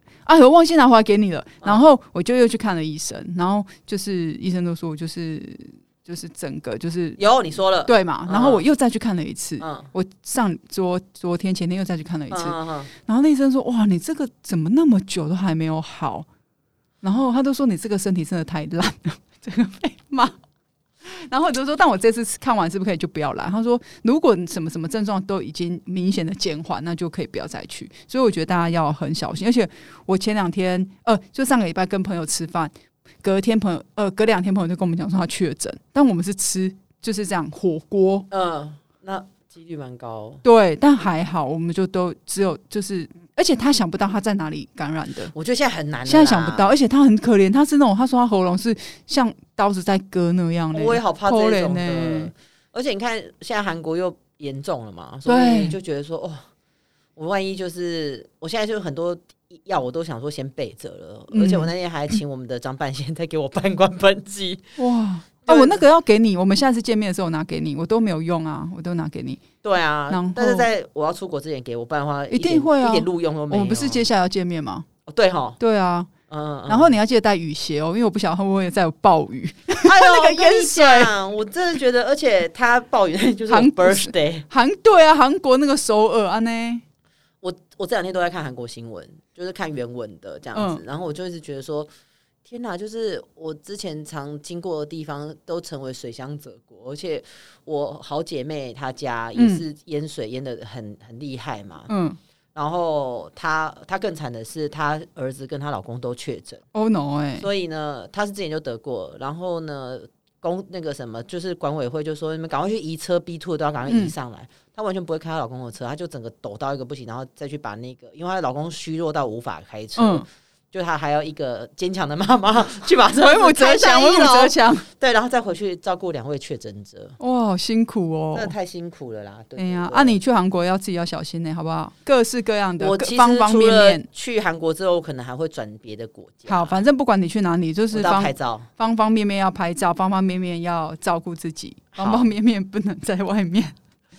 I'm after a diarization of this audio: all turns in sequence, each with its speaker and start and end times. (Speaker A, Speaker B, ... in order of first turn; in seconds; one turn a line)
Speaker A: 0.3-7.2
Speaker B: 7.2-8.6
Speaker A: 7.9-16.3
Speaker B: 9.6-9.9
Speaker B: 12.3-12.9
Speaker A: 17.0-20.4
Speaker A: 21.1-38.3
Speaker B: 38.3-40.4
Speaker A: 40.4-45.3
Speaker B: 45.3-46.8
Speaker A: 46.0-52.3
Speaker B: 50.7-56.4
Speaker A: 55.3-55.8
Speaker B: 57.2-64.6
Speaker A: 61.3-61.7
Speaker A: 64.8-69.4
Speaker B: 65.5-65.8
Speaker B: 69.6-74.0
Speaker A: 70.1-70.7
Speaker A: 72.3-74.9
Speaker B: 75.1-75.6
Speaker A: 75.6-76.1
Speaker B: 76.3-77.0
Speaker A: 76.7-81.1
Speaker B: 79.8-84.5
Speaker A: 83.5-86.8
Speaker B: 87.4-91.9
Speaker A: 90.5-90.8
Speaker B: 92.5-101.9
Speaker A: 99.3-99.6
Speaker A: 101.9-102.2
Speaker B: 102.5-106.7
Speaker A: 106.7-107.5
Speaker B: 107.4-127.2
Speaker A: 113.9-114.1
Speaker A: 120.0-120.3
Speaker A: 123.1-124.9
Speaker A: 127.2-128.5
Speaker B: 128.3-130.2
Speaker A: 129.6-134.1
Speaker B: 132.8-136.8
Speaker A: 136.5-143.8
Speaker B: 137.9-138.7
Speaker B: 142.0-142.3